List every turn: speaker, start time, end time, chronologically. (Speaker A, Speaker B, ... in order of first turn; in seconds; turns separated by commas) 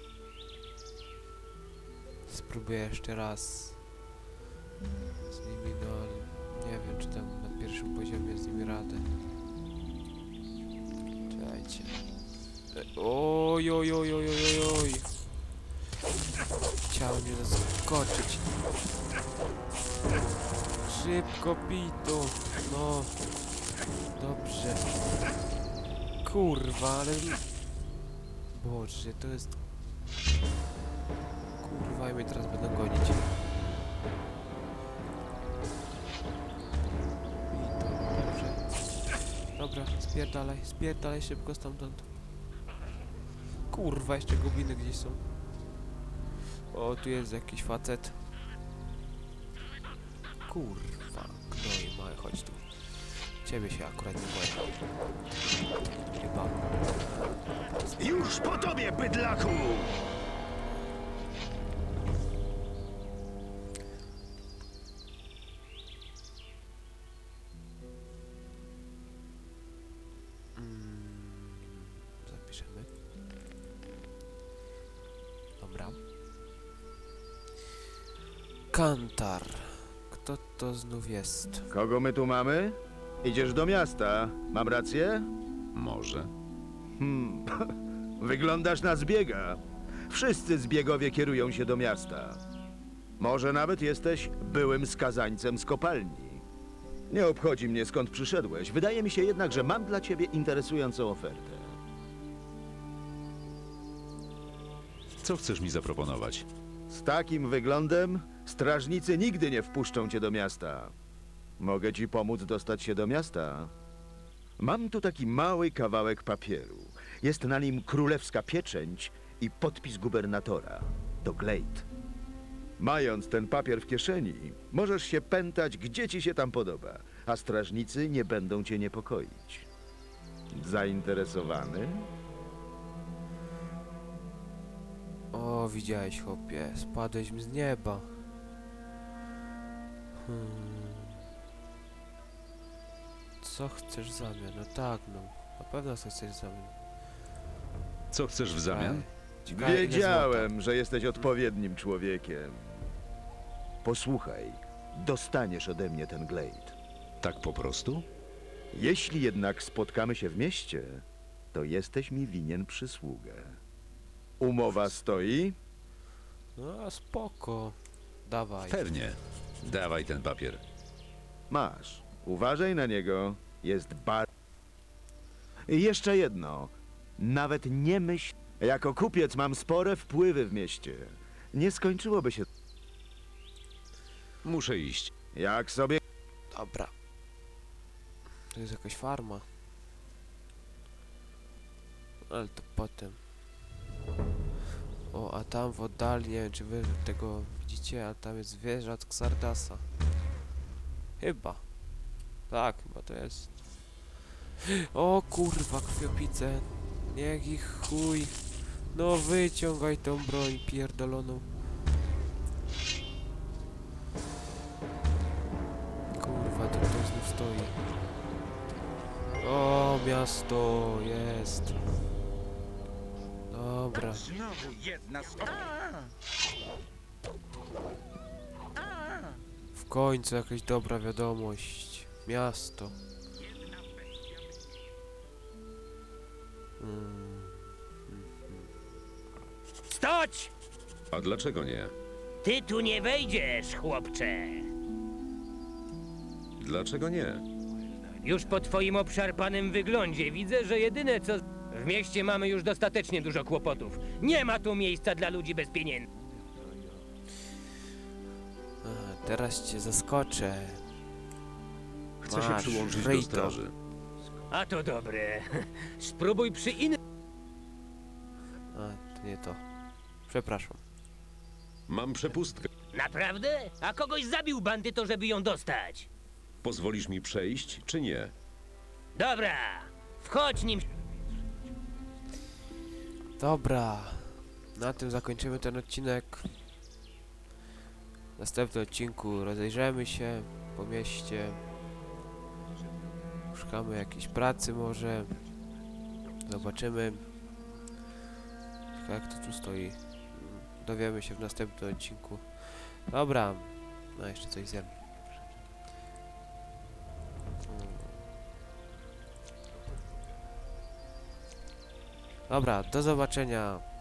Speaker A: 2.3-3.8, Speaker A: 5.2-9.1, Speaker A: 11.3-12.0, Speaker A: 12.7-15.1, Speaker A: 16.9-18.5, Speaker A: 20.8-23.3, Speaker A: 24.1-24.9, Speaker A: 26.2-27.5, Speaker A: 28.5-29.6, Speaker A: 31.6-33.3, Speaker A: 37.5-42.1, Speaker A: 43.7-45.2, Speaker A: 46.7-48.2, Speaker A: 50.5-54.8, Speaker A: 56.1-56.8, Speaker B: 58.0-60.0, Speaker A: 70.5-72.9, Speaker A: 75.6-76.0, Speaker A: 78.7-81.7, Speaker B: 81.7-85.3, Speaker C: 85.7-86.3, Speaker B: 87.0-92.4, Speaker B: 93.2-96.4, Speaker B: 97.1-101.8, Speaker C: 105.2-106.5, Speaker B: 106.9-110.9, Speaker B: 111.6-113.7, Speaker B: 114.6-121.9, Speaker B: 122.8-129.7, Speaker B: 130.5-132.1, Speaker A: 135.3-138.2, Speaker A: 140.2-141.2, Speaker A: 143.4-146.8, Speaker C: 148.1-149.1, Speaker A: 148.7-150.5, Speaker B: 149.5-152.9, Speaker B: 153.8-156.8, Speaker C: 157.2-158.1, Speaker B: 158.7-163.6, Speaker B: 164.4-165.6, Speaker A: 166.6-168.9, Speaker C: 168.7-170.6, Speaker B: 171.5-174.3, Speaker B: 175.7-182.4, Speaker C: 184.4-185.1, Speaker B: 185.3-186.0, Speaker A: 186.5-186.9, Speaker A: 188.5-189.4, Speaker A: 192.3-193.2, Speaker A: 195.1-199.8, Speaker A: 201.2-201.6, Speaker A: 202.5-203.5, Speaker A: 204.6-211.5, Speaker A: 216.1-217.9, Speaker A: 219.4-221.8, Speaker A: 223.5-224.3, Speaker D: 224.1-226.1, Speaker D: 228.8-229.3, Speaker A: 229.7-233.0, Speaker D: 233.5-234.2, Speaker A: 236.8-238.7, Speaker E: 239.9-240.5, Speaker C: 241.1-241.9, Speaker E: 242.4-244.7, Speaker C: 246.6-247.4, Speaker E: 248.2-256.1, Speaker A: 258.8-260.8, Speaker A: 262.2-263.6, Speaker C: 262.2-263.7, Speaker E: 264.5-267.0, Speaker A: 268.7-269.6, Speaker A: 270.2-270.8, Speaker C: 271.9-272.7, Speaker E: 272.9-276.1, Speaker C: 276.6-278.3, Speaker E: 279.1-280.9, Speaker A: 283.4-286.6, Speaker A: 288.4-291.6, Speaker A: 293.5-295.4, Speaker A: 296.4-297.3, Speaker A: 298.9-304.9, Speaker A: 307.6-308.3, Speaker A: 312.5-313.8